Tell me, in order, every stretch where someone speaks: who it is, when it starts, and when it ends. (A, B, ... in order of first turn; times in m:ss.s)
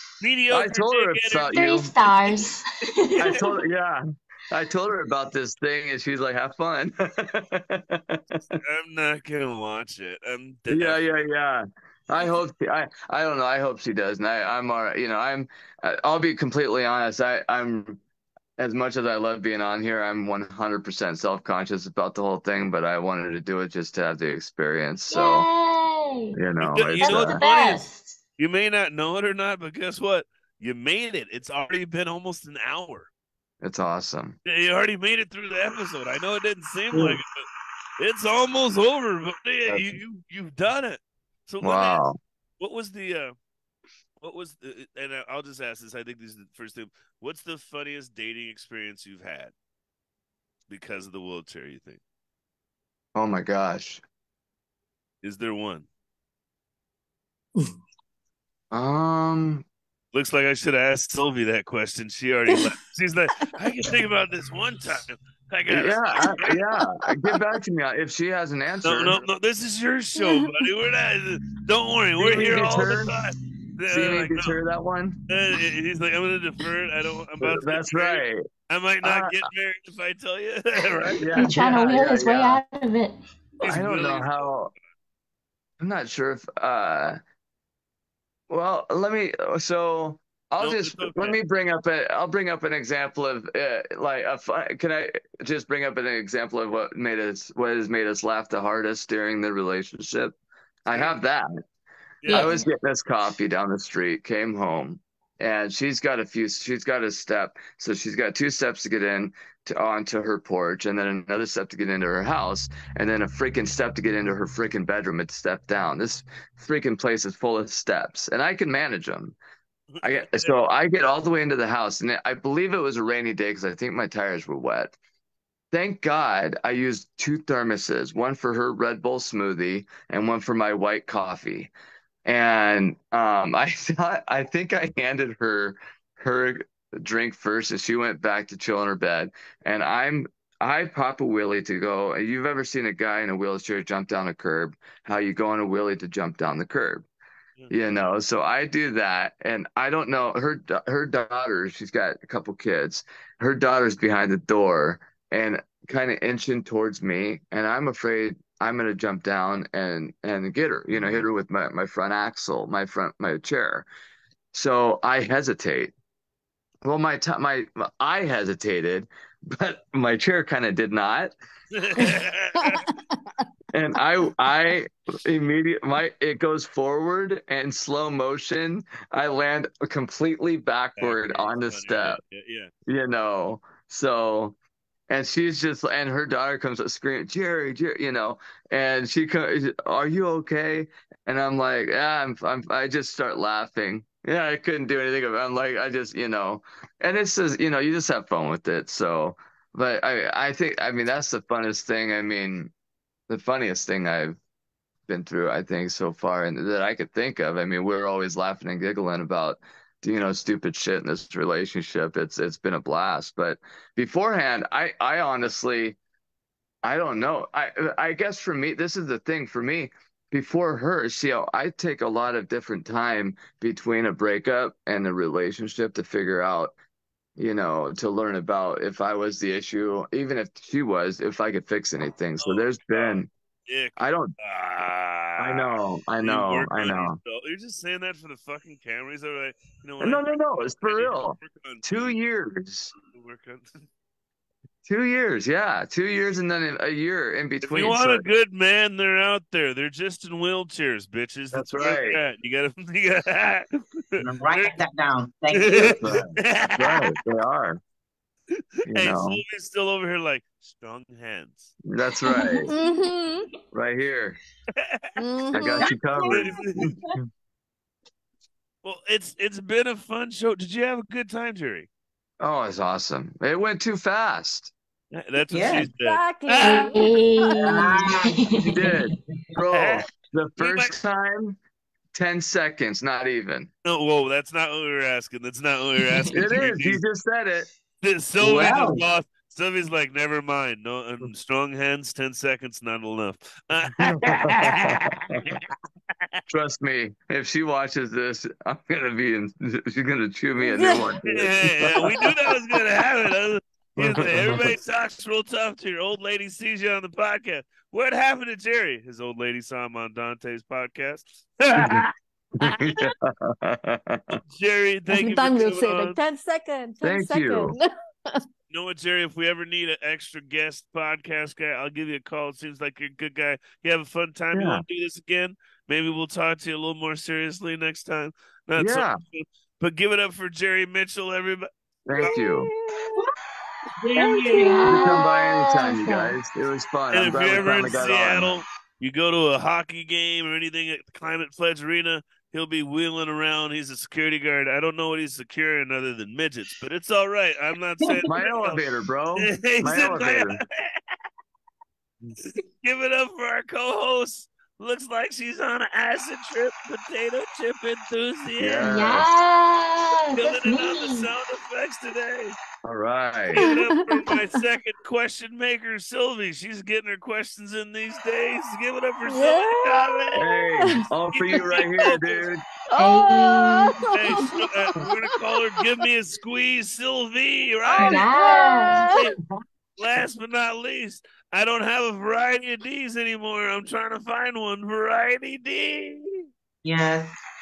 0:00.2-0:02.4 A
0:00.5-0:01.9 B
0:01.5-0:03.4 C
0:03.1-0:03.4 A
0:03.2-0:08.6 B
0:08.5-0:11.0 A
0:10.7-0:18.0 B
0:18.6-0:25.5 B
0:25.1-0:26.4 C
0:26.3-0:27.4 B
0:26.6-0:27.8 A
0:27.0-0:28.2 C
0:28.4-0:33.1 A
0:33.6-0:34.4 B
0:34.4-0:37.4 A
0:38.0-0:42.0 A
0:39.7-0:40.0 B
0:41.6-0:42.2 B
0:42.6-0:43.3 A
0:44.2-0:49.5 A
0:50.7-0:52.0 A
0:53.1-0:54.0 B
0:55.2-0:55.9 A
0:58.7-0:59.6 B
1:00.1-1:06.6 A
1:05.7-1:09.2 B
1:08.8-1:14.6 A
1:12.2-1:13.1 B
1:13.9-1:15.2 B
1:15.3-1:21.9 A
1:17.4-1:18.4 B
1:19.0-1:19.4 B
1:21.2-1:22.6 B
1:21.4-1:23.2 C
1:23.6-1:24.7 A
1:23.6-1:24.7 B
1:25.8-1:27.2 B
1:28.5-1:41.5 B
1:30.6-1:31.4 A
1:40.9-1:41.2 A
1:42.2-1:42.6 A
1:42.3-1:59.4 B
1:42.3-1:42.6 C
1:59.9-2:00.5 A
2:00.0-2:05.0 B
2:05.7-2:11.7 B
2:12.2-2:27.1 B
2:27.7-2:43.9 B
2:40.9-2:41.2 A
2:44.5-2:45.9 B
2:46.8-2:51.3 B
2:51.7-2:52.9 A
2:52.0-2:53.0 D
2:53.7-3:02.2 B
3:01.0-3:02.7 A
3:02.9-3:04.6 B
3:05.1-3:22.7 B
3:23.3-3:24.4 B
3:25.1-3:36.0 B
3:36.8-3:46.7 B
3:47.4-3:53.3 B
3:52.4-4:02.2 A
3:54.0-3:54.3 B
3:55.4-3:57.2 B
4:00.0-4:02.9 B
4:03.0-4:03.9 A
4:04.8-4:08.2 B
4:07.6-4:14.7 A
4:11.5-4:12.2 B
4:14.2-4:16.2 E
4:15.5-4:17.1 A
4:15.9-4:17.8 B
4:18.6-4:21.7 A
4:18.9-4:19.4 B
4:21.8-4:22.7 B
4:22.5-4:23.5 D
4:23.7-4:24.4 B
4:24.8-4:25.1 A
4:25.2-4:26.3 D
4:25.5-4:27.2 B
4:25.9-4:26.6 E
4:26.3-4:26.9 A
4:28.8-4:31.9 A
4:32.4-4:34.7 B
4:35.1-4:37.0 A
4:35.5-4:35.9 E
4:36.0-4:38.0 D
4:36.6-4:38.9 C
4:37.6-4:38.5 E
4:38.6-4:41.6 B
4:39.7-4:40.0 A
4:40.6-4:40.9 A
4:42.1-4:43.7 B
4:43.8-4:47.0 A
4:46.3-4:47.7 B
4:48.0-4:55.7 A
4:48.4-4:49.0 E
4:48.4-4:48.9 B
4:54.2-4:55.5 B
4:56.5-5:02.2 B
5:00.6-5:01.1 D
5:01.2-5:13.0 A
5:04.0-5:04.7 B
5:11.7-5:12.1 B
5:12.6-5:14.4 B
5:14.4-5:16.2 A
5:15.1-5:18.4 D
5:17.0-5:17.8 B
5:18.7-5:31.7 A
5:24.5-5:24.8 B
5:28.8-5:29.2 B
5:32.0-5:32.7 B
5:32.2-5:33.3 D
5:34.0-5:34.9 E
5:34.0-5:35.0 A
5:34.5-5:36.3 C
5:34.9-5:38.6 B
5:37.1-5:48.8 A
5:48.2-5:50.6 B
5:49.4-5:51.2 A
5:52.4-5:58.9 A
5:58.6-5:59.3 B
5:58.8-6:01.3 C
6:00.3-6:02.6 A
6:02.8-6:03.7 B
6:03.5-6:04.5 D
6:03.5-6:10.5 A
6:09.2-6:11.1 D
6:10.4-6:12.6 B
6:11.3-6:12.1 A
6:11.6-6:12.2 D
6:12.9-6:16.0 D
6:13.0-6:14.0 C
6:14.1-6:18.3 A
6:17.9-6:19.0 C
6:18.0-6:19.3 D
6:19.0-6:19.3 A
6:19.1-6:19.4 E
6:20.0-6:26.4 A
6:26.8-6:27.4 E